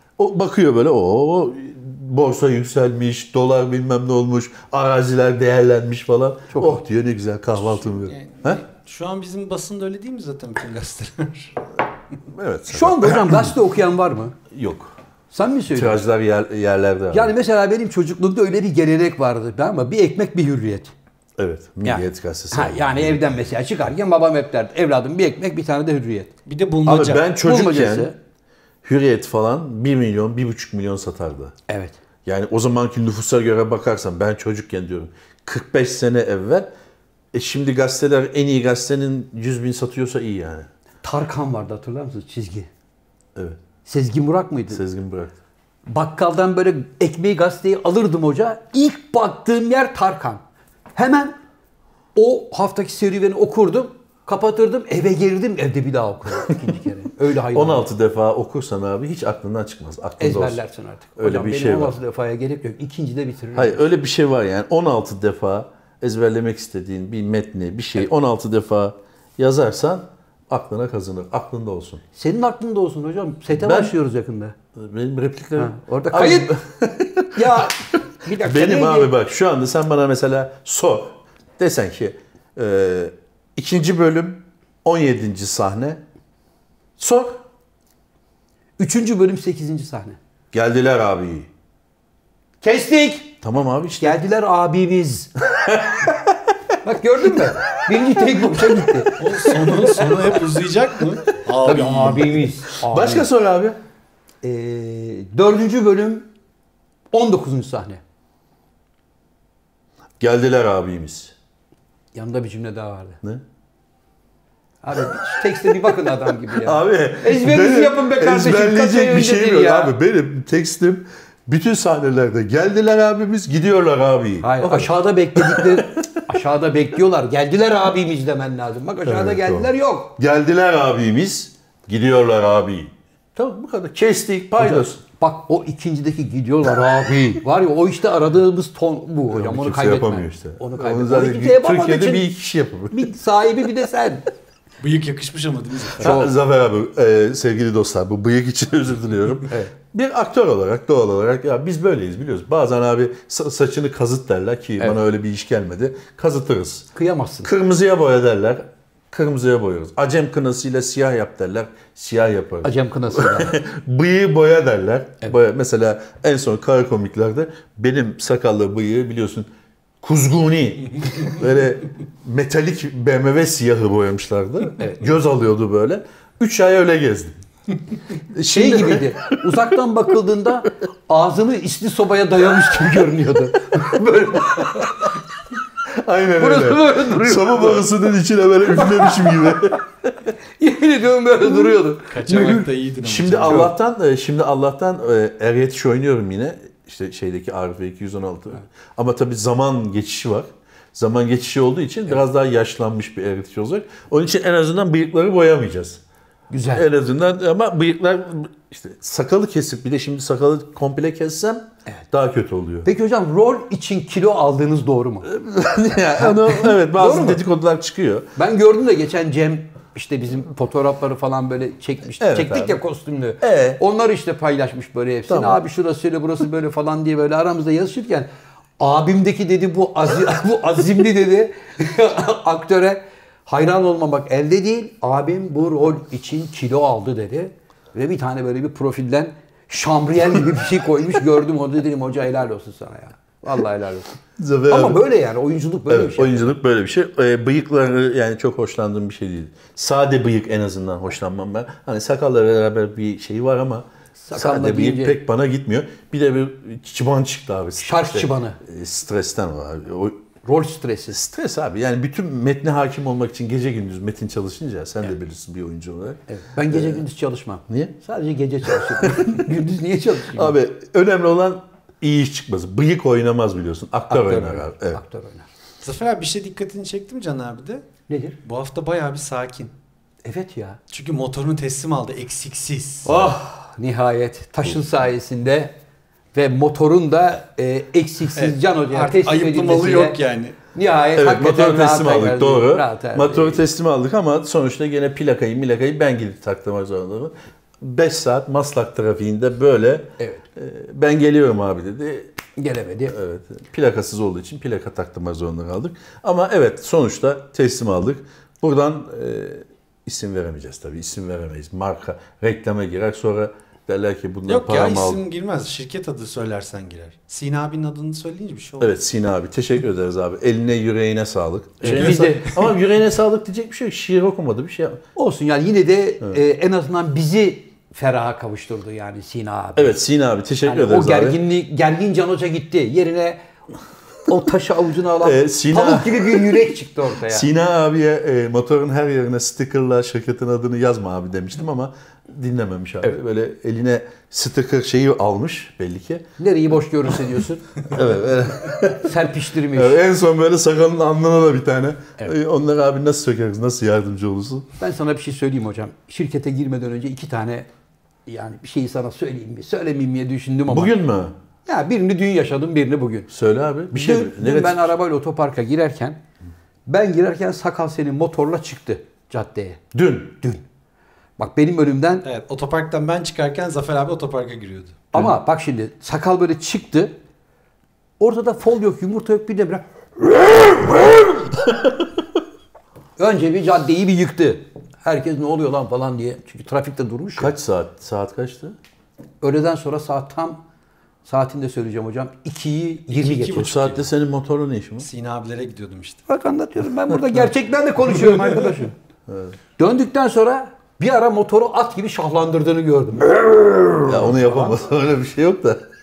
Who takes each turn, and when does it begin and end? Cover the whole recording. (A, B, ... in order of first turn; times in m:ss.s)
0:00.2-0:08.6 A
0:06.5-0:06.8 B
0:08.0-0:11.5 C
0:12.3-0:13.5 A
0:12.7-0:14.4 B
0:14.5-0:14.9 A
0:15.3-0:16.0 B
0:15.7-0:17.3 A
0:17.1-0:20.9 B
0:21.4-0:23.2 A
0:21.8-0:26.3 B
0:26.4-0:27.3 C
0:26.8-0:28.1 A
0:27.4-0:28.1 B
0:28.8-0:31.5 A
0:31.7-0:32.0 B
0:32.2-0:36.7 A
0:37.3-0:40.7 A
0:41.0-0:42.7 B
0:43.8-0:44.8 B
0:44.7-0:45.3 A
0:45.9-0:50.4 B
0:50.9-0:51.4 B
0:52.1-0:57.8 B
0:57.5-1:00.6 A
1:00.2-1:03.8 B
1:01.2-1:02.0 A
1:03.5-1:12.0 A
1:12.2-1:14.5 B
1:13.5-1:13.9 A
1:14.7-1:17.7 A
1:15.6-1:16.5 B
1:17.3-1:19.1 B
1:18.3-1:26.0 A
1:27.0-1:27.4 A
1:28.8-1:30.2 B
1:30.5-1:31.5 A
1:32.6-1:33.4 B
1:33.4-1:34.2 A
1:34.0-1:35.3 B
1:35.5-1:36.3 A
1:36.8-1:39.2 B
1:39.2-1:42.4 C
1:41.6-1:43.3 B
1:42.8-1:43.8 A
1:44.4-1:46.3 B
1:47.1-1:48.0 B
1:50.2-1:51.3 A
1:52.1-1:53.2 B
1:54.8-1:59.9 B
1:55.8-2:06.4 A
2:04.4-2:10.2 B
2:09.0-2:15.0 A
2:14.6-2:22.3 B
2:19.3-2:23.1 A
2:22.9-2:24.2 B
2:24.8-2:26.1 C
2:26.0-2:36.9 A
2:26.0-2:26.3 B
2:36.9-2:37.5 B
2:37.4-2:49.5 A
2:42.6-2:43.6 B
2:50.0-2:57.4 A
2:58.3-2:59.4 A
2:58.4-3:05.1 B
3:05.9-3:09.8 A
3:06.4-3:07.8 B
3:08.8-3:09.5 B
3:10.6-3:12.6 B
3:11.4-3:11.8 A
3:12.1-3:13.7 C
3:13.0-3:26.0 A
3:13.4-3:13.7 B
3:26.5-3:26.9 B
3:26.7-3:32.9 A
3:32.8-3:35.3 B
3:35.2-3:38.3 A
3:36.2-3:37.4 B
3:38.4-3:48.3 B
3:42.2-3:42.8 A
3:43.4-3:43.8 A
3:45.3-3:45.6 A
3:48.8-4:04.1 B
4:04.4-4:05.0 A
4:04.7-4:06.6 B
4:05.9-4:20.2 A
4:14.2-4:15.2 B
4:17.8-4:18.6 B
4:20.4-4:21.2 B
4:21.1-4:27.0 A
4:26.3-4:30.5 B
4:27.7-4:27.9 A
4:28.6-4:29.6 A
4:30.3-4:35.0 A
4:34.1-4:35.5 B
4:35.8-4:37.8 C
4:38.1-4:38.4 B
4:38.4-4:39.7 C
4:40.2-4:40.8 B
4:40.9-4:43.1 C
4:43.0-4:45.7 B
4:43.0-4:43.4 A
4:46.3-4:50.2 B
4:48.4-4:50.6 C
4:50.7-4:53.6 B
4:51.1-5:02.3 A
5:00.2-5:00.4 B
5:02.6-5:03.1 B
5:03.1-5:15.2 A
5:14.5-5:18.9 C
5:18.8-5:25.0 A
5:21.8-5:22.5 B
5:21.9-5:22.6 C
5:25.2-5:30.0 B
5:29.8-5:31.4 A
5:30.6-5:33.4 B
5:34.2-5:37.4 B
5:35.2-5:36.7 A
5:37.2-5:46.2 A
5:46.4-5:47.6 B
5:47.9-5:49.2 A
5:48.8-5:50.0 B
5:49.7-5:54.7 A
5:54.8-5:57.7 B
5:58.2-6:00.9 B
6:00.7-6:01.3 A
6:01.6-6:03.3 B
6:03.3-6:04.9 A
6:03.9-6:06.2 B
6:06.9-6:09.8 B
6:09.9-6:10.4 A
6:11.4-6:12.2 B
6:12.2-6:15.0 C
6:15.1-6:17.1 B
6:18.2-6:21.5 B
6:23.2-6:27.5 B
6:27.4-6:28.8 A
6:29.4-6:30.6 B
6:31.2-6:33.7 B
6:33.1-6:34.0 C
6:33.5-6:35.1 A
6:35.0-6:36.2 C
6:36.3-6:38.9 B
6:39.3-6:39.5 A
6:39.8-6:44.8 B
6:44.1-6:45.8 A